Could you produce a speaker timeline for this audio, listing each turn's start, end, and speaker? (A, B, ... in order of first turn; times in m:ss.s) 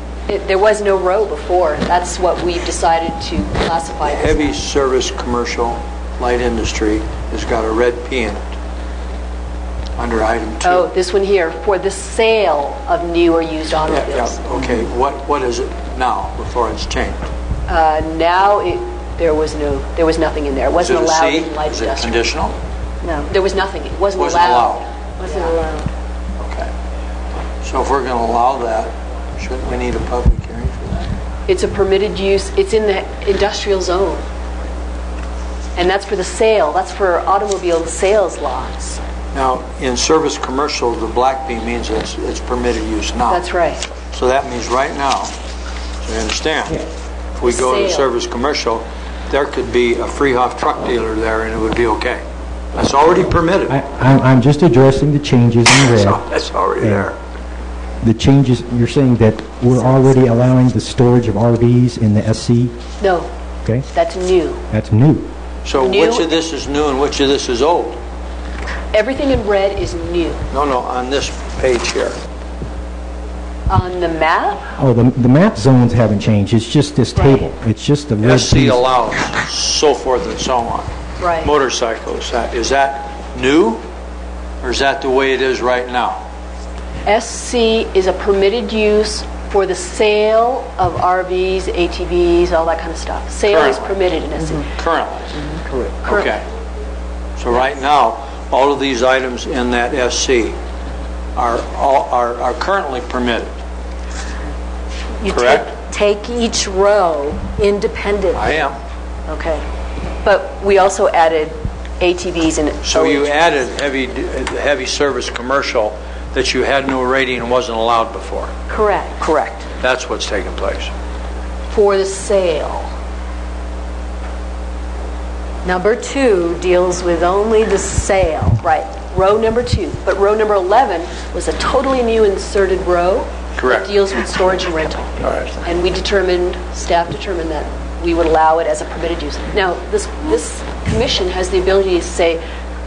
0:00.3-0:04.6 A
0:04.0-0:08.4 B
0:10.0-0:10.9 B
0:10.6-0:14.4 A
0:13.9-0:17.3 B
0:17.7-0:22.3 A
0:20.8-0:22.6 B
0:23.2-0:25.6 A
0:24.2-0:24.9 B
0:25.3-0:25.8 C
0:26.4-0:26.7 B
0:27.6-0:31.1 B
0:31.5-0:34.2 A
0:35.8-0:39.0 A
0:39.3-0:43.4 B
0:43.3-0:43.8 A
0:44.1-0:45.4 B
0:46.0-0:52.2 B
0:47.4-0:48.1 A
0:52.8-0:53.8 B
0:53.7-0:56.2 D
0:55.8-0:57.2 B
0:56.8-0:57.1 D
0:58.0-1:02.8 D
1:03.0-1:03.3 A
1:03.9-1:04.6 A
1:04.7-1:05.3 D
1:05.6-1:08.0 B
1:05.8-1:06.3 A
1:08.9-1:10.4 A
1:10.5-1:12.2 B
1:13.7-1:14.7 A
1:14.8-1:18.8 D
1:18.2-1:20.9 B
1:21.2-1:21.5 A
1:21.4-1:23.8 B
1:24.6-1:26.2 B
1:27.1-1:34.7 A
1:33.5-1:34.0 B
1:34.7-1:35.4 B
1:36.0-1:36.4 B
1:37.4-1:40.6 B
1:41.4-1:43.6 B
1:45.2-1:48.4 C
1:45.3-1:45.7 B
1:48.3-1:48.8 B
1:49.4-1:49.6 C
1:50.2-1:53.3 A
1:52.8-1:58.5 B
1:58.7-1:59.6 A
1:59.8-2:00.9 B
2:01.7-2:02.9 A
2:05.6-2:08.5 C
2:08.5-2:22.4 A
2:13.6-2:14.0 B
2:15.2-2:15.6 B